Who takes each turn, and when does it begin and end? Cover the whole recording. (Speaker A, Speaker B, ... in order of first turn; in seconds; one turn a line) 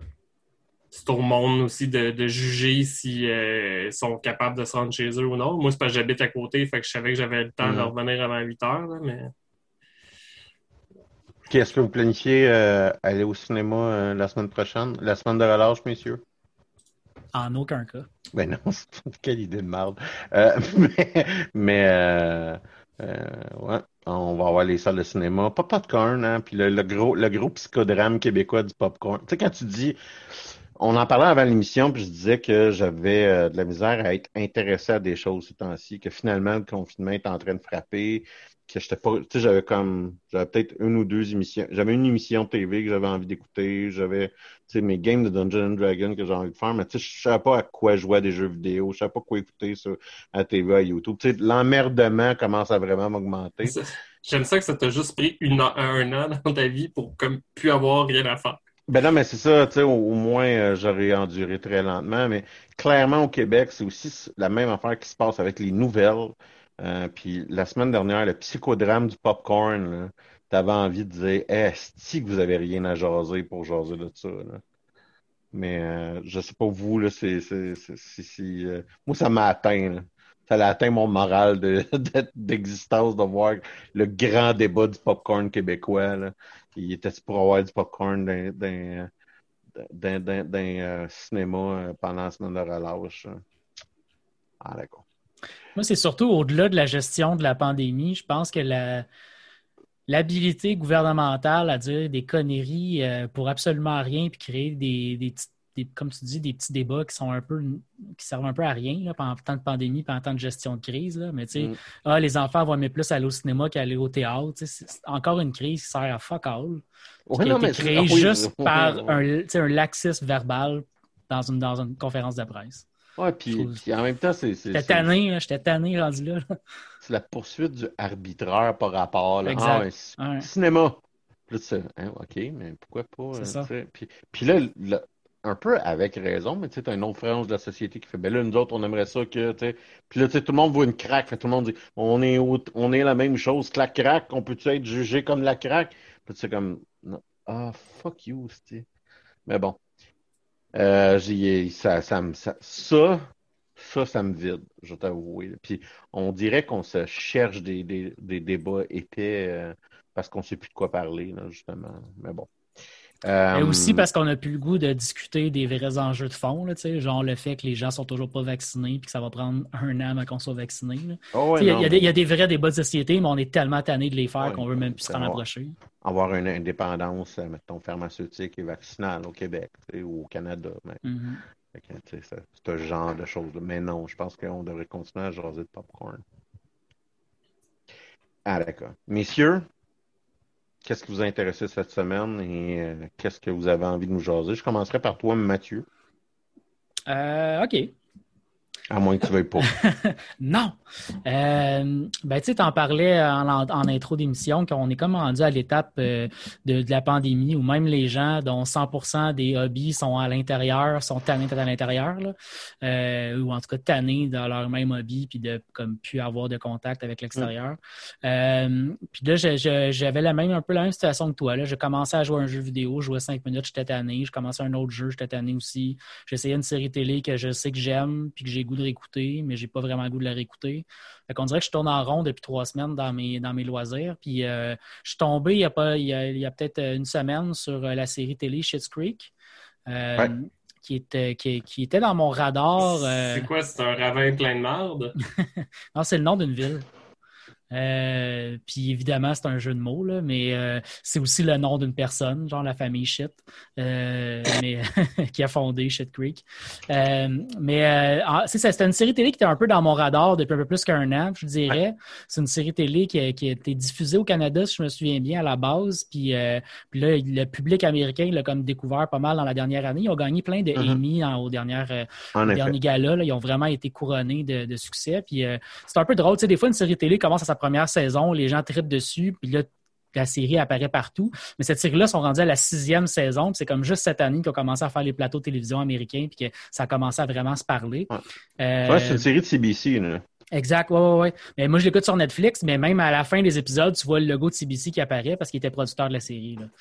Speaker A: 0.9-9.3
Speaker B: 7.6-7.9
Speaker B: 11.5-16.2
Speaker C: 17.3-18.1
Speaker B: 18.3-53.8
Speaker A: 53.6-58.6
Speaker B: 58.9-74.6
Speaker B: 75.5-89.1
Speaker B: 89.8-93.4
Speaker B: 94.6-95.0
Speaker C: 95.8-99.1
Speaker C: 100.1-116.8
Speaker B: 117.3-119.2
Speaker C: 117.4-122.8
Speaker B: 123.2-125.1
Speaker C: 123.5-123.8
Speaker C: 124.7-126.4
Speaker B: 127.0-148.9
Speaker C: 129.4-130.5
Speaker C: 133.4-133.7
Speaker B: 149.4-149.8
Speaker B: 150.7-162.5
Speaker B: 163.2-164.1
Speaker C: 163.5-175.7
Speaker B: 171.3-172.1
Speaker B: 174.4-175.4
Speaker B: 176.0-181.0
Speaker C: 181.0-181.4
Speaker B: 181.7-186.2
Speaker B: 188.4-189.7
Speaker B: 190.8-195.9
Speaker C: 197.1-197.9
Speaker B: 198.9-199.7
Speaker C: 199.6-239.3
Speaker C: 239.9-243.5
Speaker A: 242.8-245.2
Speaker C: 245.2-246.9
Speaker C: 247.7-289.3
Speaker B: 270.7-271.0
Speaker B: 272.3-272.7
Speaker B: 288.9-290.2
Speaker C: 290.5-296.7